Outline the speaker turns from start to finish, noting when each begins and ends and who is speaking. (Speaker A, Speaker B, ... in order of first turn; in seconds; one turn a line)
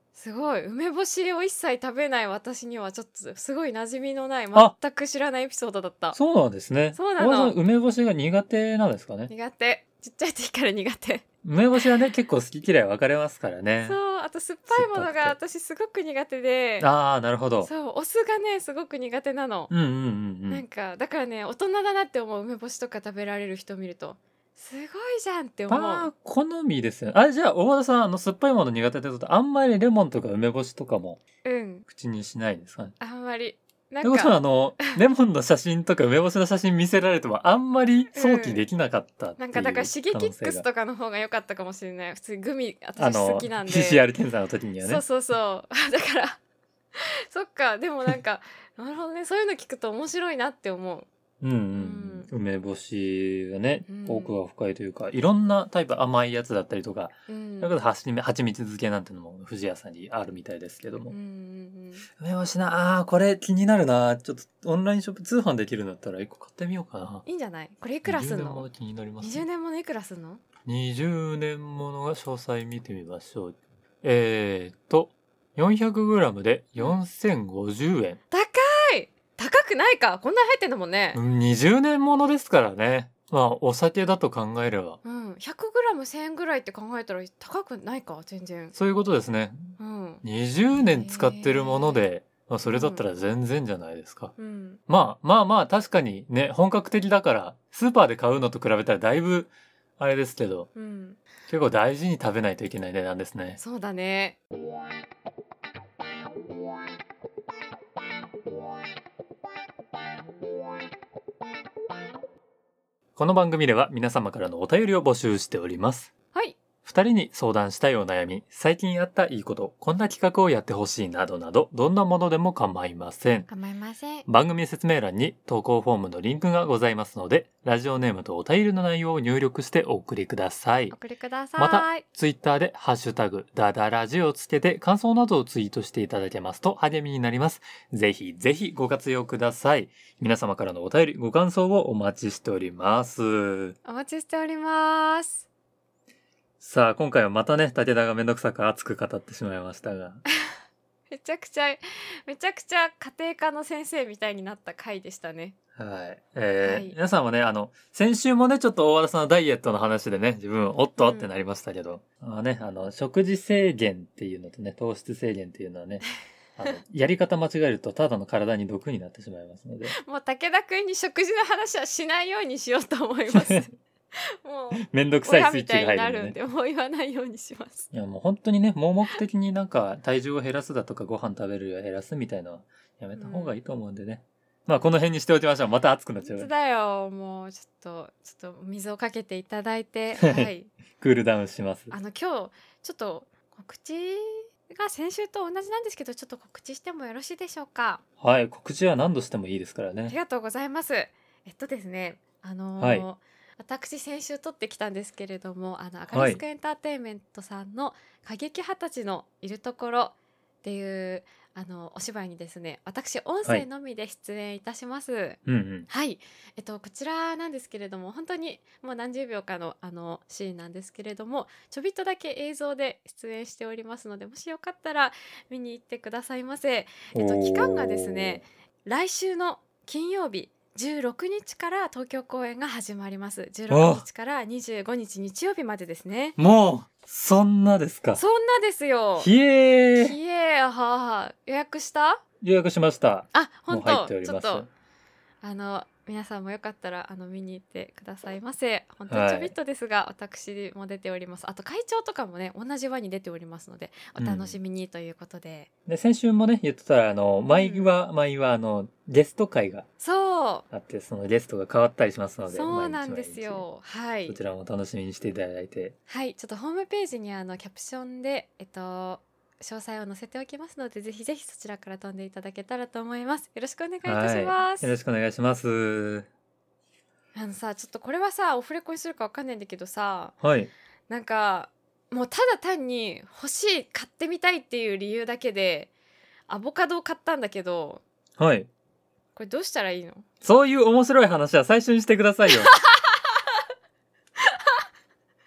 Speaker A: 0.1-6.2
Speaker B: 6.1-9.3
Speaker A: 7.0-7.6
Speaker A: 9.3-11.2
Speaker B: 11.4-14.0
Speaker A: 13.8-16.9
Speaker B: 14.7-15.4
Speaker B: 16.8-17.7
Speaker A: 17.6-19.7
Speaker B: 19.7-20.6
Speaker A: 20.5-26.1
Speaker B: 25.7-31.2
Speaker A: 31.4-31.9
Speaker B: 31.9-33.0
Speaker A: 33.0-35.0
Speaker B: 34.0-40.6
Speaker A: 38.1-38.6
Speaker A: 39.4-44.0
Speaker B: 43.0-45.0
Speaker A: 44.8-46.4
Speaker A: 47.0-51.1
Speaker B: 51.4-61.1
Speaker A: 51.7-52.3
Speaker A: 53.9-54.4
Speaker A: 57.3-57.7
Speaker A: 61.1-62.1
Speaker B: 62.1-67.2
Speaker A: 67.3-68.7
Speaker B: 68.1-69.5
Speaker A: 69.2-70.4
Speaker B: 70.7-78.2
Speaker A: 78.3-81.2
Speaker B: 81.1-85.0
Speaker A: 85.0-88.8
Speaker B: 88.8-94.3
Speaker A: 89.8-90.2
Speaker A: 90.7-92.0
Speaker A: 92.7-93.0
Speaker A: 94.4-94.8
Speaker B: 94.9-100.7
Speaker A: 100.8-101.2
Speaker B: 101.5-103.6
Speaker A: 103.6-104.4
Speaker B: 113.2-116.1
Speaker A: 116.3-116.6
Speaker B: 116.8-123.5
Speaker A: 123.5-124.3
Speaker B: 124.3-130.9
Speaker A: 130.9-132.0
Speaker B: 131.6-143.8
Speaker A: 143.8-145.5
Speaker B: 146.6-150.2
Speaker A: 151.1-155.6
Speaker B: 155.8-166.1
Speaker A: 156.6-156.9
Speaker A: 161.0-161.3
Speaker B: 166.6-170.0
Speaker A: 169.9-177.9
Speaker B: 173.3-173.7
Speaker B: 174.8-176.4
Speaker B: 177.9-186.5
Speaker A: 183.2-183.6
Speaker A: 186.2-190.7
Speaker B: 190.2-191.9
Speaker A: 191.9-198.0
Speaker B: 198.2-200.2
Speaker A: 200.1-236.4
Speaker B: 202.8-203.1
Speaker B: 206.1-206.4
Speaker B: 215.5-215.9
Speaker B: 227.1-228.4
Speaker B: 233.7-234.1
Speaker B: 236.4-238.2
Speaker A: 238.2-239.3
Speaker B: 239.2-240.2
Speaker A: 239.9-242.2
Speaker B: 242.4-244.7
Speaker A: 243.3-244.7
Speaker A: 245.4-255.7
Speaker B: 249.1-249.5
Speaker B: 254.2-254.6
Speaker B: 255.9-259.9
Speaker A: 257.5-257.9
Speaker A: 260.0-260.7
Speaker B: 260.7-263.7
Speaker A: 262.5-264.4
Speaker B: 264.3-265.9
Speaker A: 266.1-274.9
Speaker B: 274.1-276.3
Speaker A: 277.4-280.4
Speaker B: 280.4-280.7
Speaker A: 281.1-285.9
Speaker A: 286.5-288.0
Speaker B: 288.4-288.7
Speaker A: 289.4-290.3
Speaker B: 290.4-292.7
Speaker A: 292.5-293.6
Speaker A: 294.4-294.8